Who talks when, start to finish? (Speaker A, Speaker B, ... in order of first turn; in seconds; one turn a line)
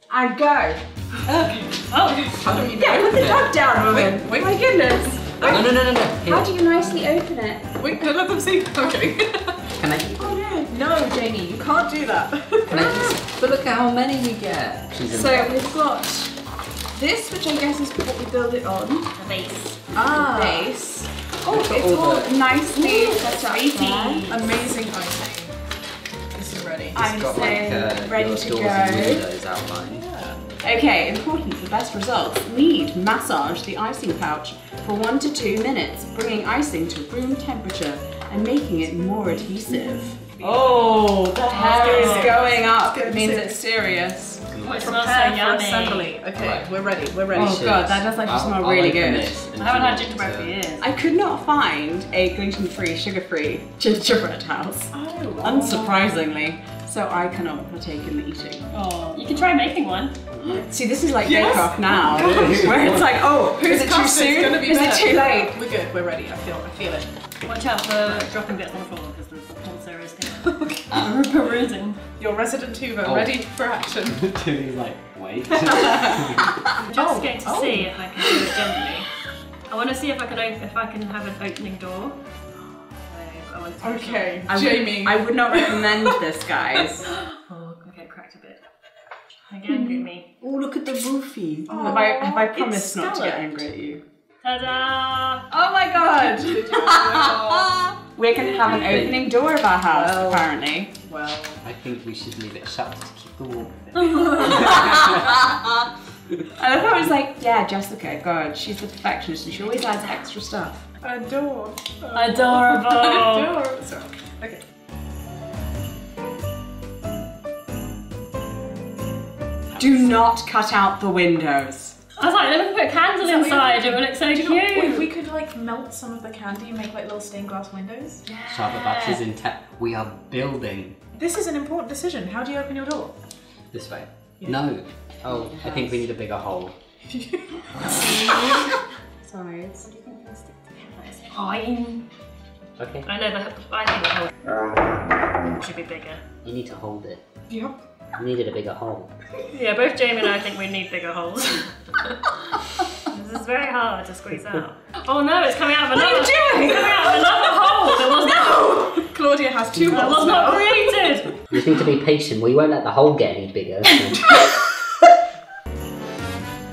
Speaker A: 0.1-0.8
Speaker B: 1.2-3.3
Speaker C: 1.9-2.4
Speaker D: 2.4-3.5
Speaker A: 2.5-5.7
Speaker B: 3.8-5.7
Speaker D: 5.5-6.5
Speaker A: 6.2-7.7
Speaker B: 7.8-9.7
Speaker D: 9.8-10.4
Speaker A: 10.2-10.8
Speaker B: 10.7-12.9
Speaker D: 12.7-15.7
Speaker A: 15.1-16.3
Speaker A: 16.9-24.3
Speaker C: 19.2-19.7
Speaker B: 19.9-20.8
Speaker D: 21.4-22.3
Speaker C: 22.7-24.5
Speaker B: 24.3-25.6
Speaker B: 26.3-27.1
Speaker A: 26.9-29.2
Speaker D: 27.0-30.1
Speaker B: 29.9-30.4
Speaker A: 30.6-44.4
Speaker B: 39.8-40.9
Speaker B: 41.5-43.6
Speaker C: 41.8-42.3
Speaker D: 44.5-44.9
Speaker C: 44.6-46.1
Speaker B: 44.8-47.8
Speaker D: 46.4-46.7
Speaker D: 47.3-50.5
Speaker A: 47.3-49.4
Speaker C: 49.6-50.9
Speaker A: 50.8-58.7
Speaker B: 54.9-55.9
Speaker C: 55.5-56.1
Speaker C: 58.7-60.1
Speaker A: 60.5-65.6
Speaker B: 61.1-67.1
Speaker D: 62.3-63.0
Speaker C: 67.5-72.0
Speaker B: 70.4-71.1
Speaker B: 72.2-74.3
Speaker D: 73.0-73.4
Speaker D: 74.1-76.6
Speaker C: 76.8-79.1
Speaker B: 76.9-78.5
Speaker C: 79.7-82.2
Speaker C: 83.1-84.4
Speaker B: 83.8-86.2
Speaker A: 84.5-87.0
Speaker C: 87.0-88.6
Speaker C: 89.5-90.3
Speaker B: 89.7-90.0
Speaker A: 90.4-94.0
Speaker B: 91.7-92.5
Speaker C: 91.9-93.7
Speaker C: 94.4-95.5
Speaker A: 95.5-100.9
Speaker B: 96.0-97.9
Speaker B: 98.6-99.2
Speaker D: 98.7-99.2
Speaker B: 99.9-101.6
Speaker D: 101.6-105.4
Speaker C: 104.0-104.4
Speaker B: 104.1-104.7
Speaker A: 104.3-105.7
Speaker A: 106.6-110.9
Speaker B: 111.0-114.6
Speaker C: 112.1-113.6
Speaker A: 119.8-122.0
Speaker C: 122.2-125.1
Speaker B: 123.2-128.2
Speaker C: 128.3-129.2
Speaker D: 128.5-131.0
Speaker B: 131.2-133.1
Speaker D: 133.7-136.8
Speaker A: 135.4-136.0
Speaker B: 137.1-138.4
Speaker A: 137.9-138.7
Speaker A: 139.2-140.2
Speaker C: 139.8-142.0
Speaker D: 142.8-143.1
Speaker C: 143.1-144.3
Speaker C: 145.6-146.2
Speaker D: 146.4-147.2
Speaker B: 147.5-147.8
Speaker D: 148.2-149.1
Speaker C: 149.5-151.7
Speaker C: 153.1-159.0
Speaker B: 155.9-160.8
Speaker C: 159.9-161.4
Speaker D: 161.5-164.2
Speaker B: 163.8-164.7